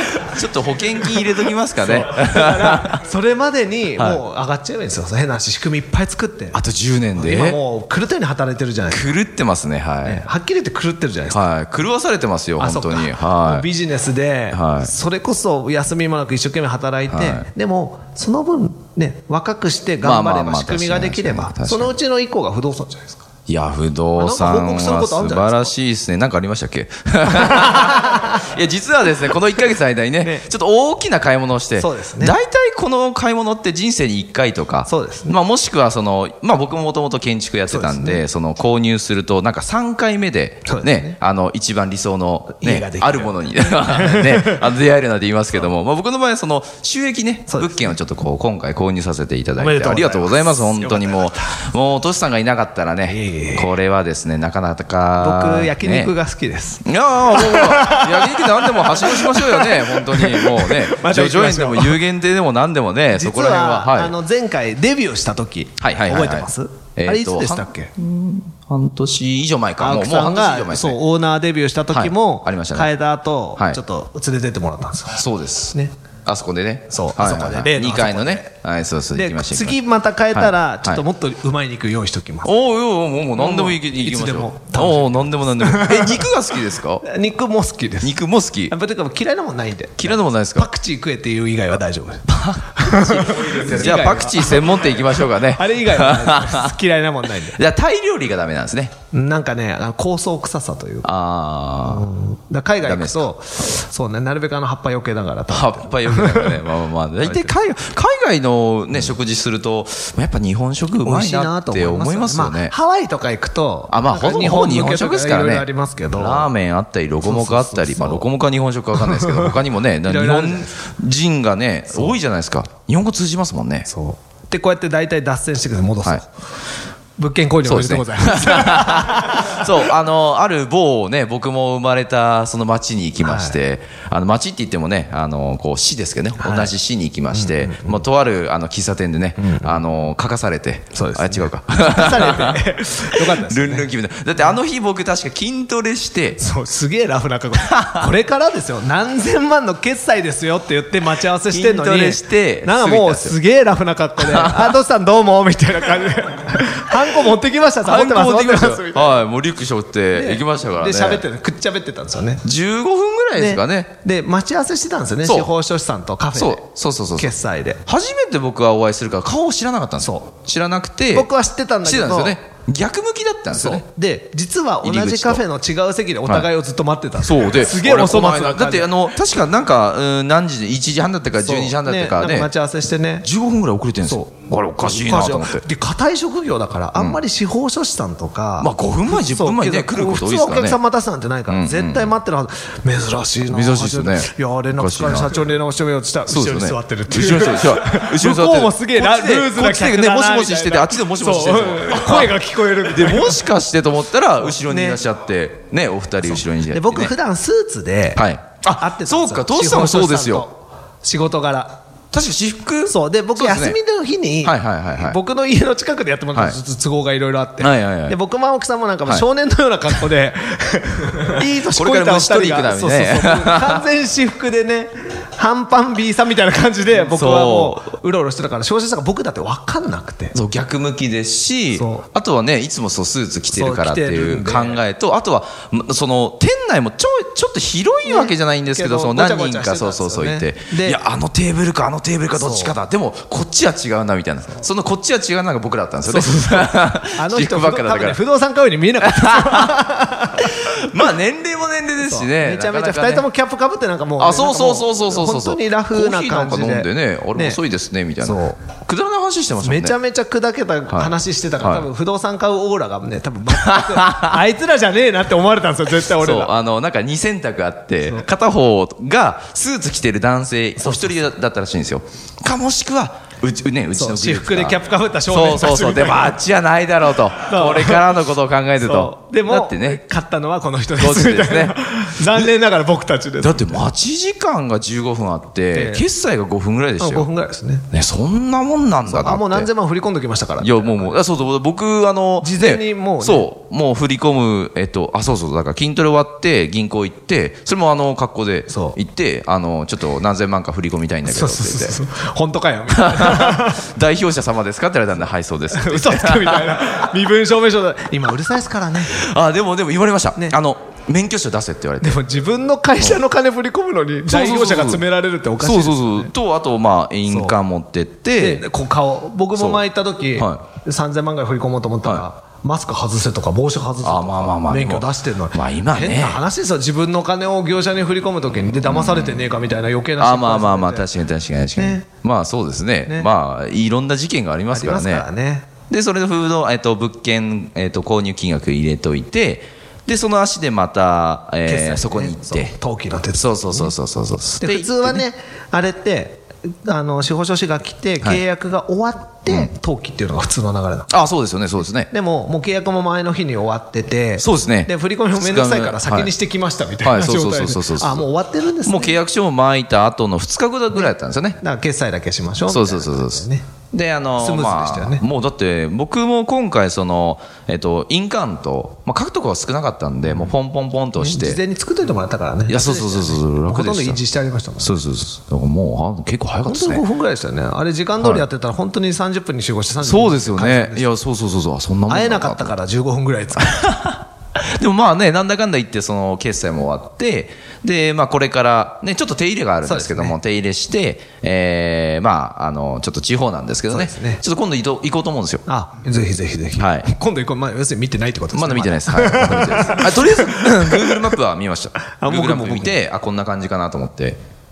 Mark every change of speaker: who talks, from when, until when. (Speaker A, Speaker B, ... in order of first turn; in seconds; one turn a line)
Speaker A: 0.2-3.0
Speaker B: 1.8-6.6
Speaker A: 6.5-7.6
Speaker B: 7.2-9.2
Speaker A: 8.9-10.3
Speaker B: 10.0-11.4
Speaker A: 11.3-13.7
Speaker B: 12.6-23.2
Speaker A: 14.5-14.9
Speaker A: 17.1-17.5
Speaker A: 20.0-21.9
Speaker A: 23.5-56.1
Speaker B: 24.2-25.7
Speaker B: 27.4-28.3
Speaker B: 30.2-30.5
Speaker B: 31.8-32.4
Speaker B: 34.9-35.4
Speaker B: 37.7-38.2
Speaker B: 40.7-41.2
Speaker B: 42.5-44.7
Speaker B: 47.5-48.0
Speaker B: 49.6-51.5
Speaker B: 53.1-53.8
Speaker B: 55.2-62.0
Speaker A: 56.8-64.2
Speaker B: 63.1-67.9
Speaker A: 65.8-71.0
Speaker B: 69.8-76.0
Speaker A: 71.9-72.9
Speaker A: 75.2-79.8
Speaker B: 76.9-78.5
Speaker B: 79.2-82.5
Speaker A: 80.3-81.0
Speaker A: 82.4-87.1
Speaker B: 83.3-86.3
Speaker B: 87.0-97.6
Speaker A: 88.0-88.8
Speaker A: 90.0-90.7
Speaker A: 92.3-96.8
Speaker A: 97.5-98.9
Speaker B: 99.1-101.1
Speaker A: 101.0-102.1
Speaker B: 101.9-106.6
Speaker A: 102.8-103.3
Speaker A: 105.5-112.8
Speaker B: 107.2-107.5
Speaker B: 111.0-116.5
Speaker A: 113.9-123.9
Speaker B: 117.2-118.3
Speaker B: 119.0-120.7
Speaker B: 123.9-126.3
Speaker B: 127.2-129.7
Speaker A: 127.6-146.4
Speaker B: 133.2-133.6
Speaker B: 136.4-136.7
Speaker B: 137.3-138.0
Speaker B: 139.4-139.8
Speaker B: 140.9-143.9
Speaker B: 146.4-159.2
Speaker A: 147.6-148.1
Speaker A: 151.5-153.3
Speaker A: 154.2-154.8
Speaker A: 157.8-161.2
Speaker B: 160.1-162.4
Speaker A: 162.4-163.9
Speaker B: 163.3-167.8
Speaker A: 165.2-165.5
Speaker A: 166.3-167.3
Speaker A: 167.9-171.3
Speaker B: 170.0-170.3
Speaker B: 171.1-172.4
Speaker A: 171.8-173.8
Speaker B: 173.5-178.9
Speaker A: 174.8-175.4
Speaker A: 177.2-182.5
Speaker B: 181.4-183.3
Speaker A: 183.2-185.7
Speaker B: 184.0-203.5
Speaker A: 188.6-190.8
Speaker A: 191.5-192.2
Speaker A: 193.5-195.4
Speaker A: 196.3-207.1
Speaker B: 204.5-205.0
Speaker B: 206.3-211.8
Speaker A: 208.2-210.5
Speaker A: 212.1-213.8
Speaker B: 212.9-230.4
Speaker A: 214.4-215.2
Speaker A: 217.6-218.2
Speaker A: 221.4-223.9
Speaker A: 226.9-227.9
Speaker A: 230.3-248.2
Speaker B: 231.7-232.1
Speaker B: 233.5-234.8
Speaker B: 238.1-241.0
Speaker B: 242.3-242.7
Speaker B: 246.1-250.8
Speaker A: 249.0-249.8
Speaker A: 250.4-253.3
Speaker B: 252.0-257.6
Speaker A: 254.2-260.0
Speaker B: 258.2-258.6
Speaker B: 259.6-266.5
Speaker A: 260.9-261.9
Speaker A: 263.5-264.4
Speaker A: 266.1-280.1
Speaker B: 270.8-271.1
Speaker B: 273.9-276.4
Speaker B: 277.4-278.1
Speaker B: 278.8-283.8
Speaker A: 281.0-282.5
Speaker A: 283.4-287.3
Speaker B: 285.7-286.1
Speaker B: 287.0-287.9
Speaker A: 287.9-289.7
Speaker B: 289.1-291.2
Speaker A: 290.6-302.0
Speaker B: 292.4-293.5
Speaker B: 298.7-299.0
Speaker B: 301.2-303.9
Speaker A: 302.9-307.1
Speaker B: 305.7-309.2
Speaker A: 309.1-312.2
Speaker B: 312.0-316.3
Speaker A: 314.3-315.1
Speaker A: 315.6-318.7
Speaker B: 317.3-317.6
Speaker B: 318.4-331.1
Speaker A: 319.6-319.8
Speaker A: 320.4-320.6
Speaker A: 324.0-326.4
Speaker A: 328.8-329.5
Speaker A: 330.2-335.3
Speaker B: 331.8-332.1
Speaker B: 334.7-335.7
Speaker A: 335.9-342.8
Speaker B: 341.6-343.9
Speaker A: 343.3-345.3
Speaker B: 344.6-351.1
Speaker A: 351.1-352.1
Speaker B: 352.1-359.2
Speaker A: 354.4-356.3
Speaker A: 357.0-358.2
Speaker A: 358.9-361.6
Speaker B: 360.9-363.7
Speaker A: 362.7-371.6
Speaker B: 364.4-365.2
Speaker B: 371.2-374.9
Speaker A: 372.7-374.2
Speaker A: 374.8-377.0
Speaker B: 376.7-381.1
Speaker A: 378.2-378.5
Speaker A: 380.0-382.8
Speaker B: 382.1-384.1
Speaker A: 383.6-395.6
Speaker B: 389.8-390.4
Speaker B: 393.9-394.4
Speaker B: 395.7-401.4
Speaker A: 396.8-397.1
Speaker A: 398.5-404.4
Speaker B: 402.1-403.0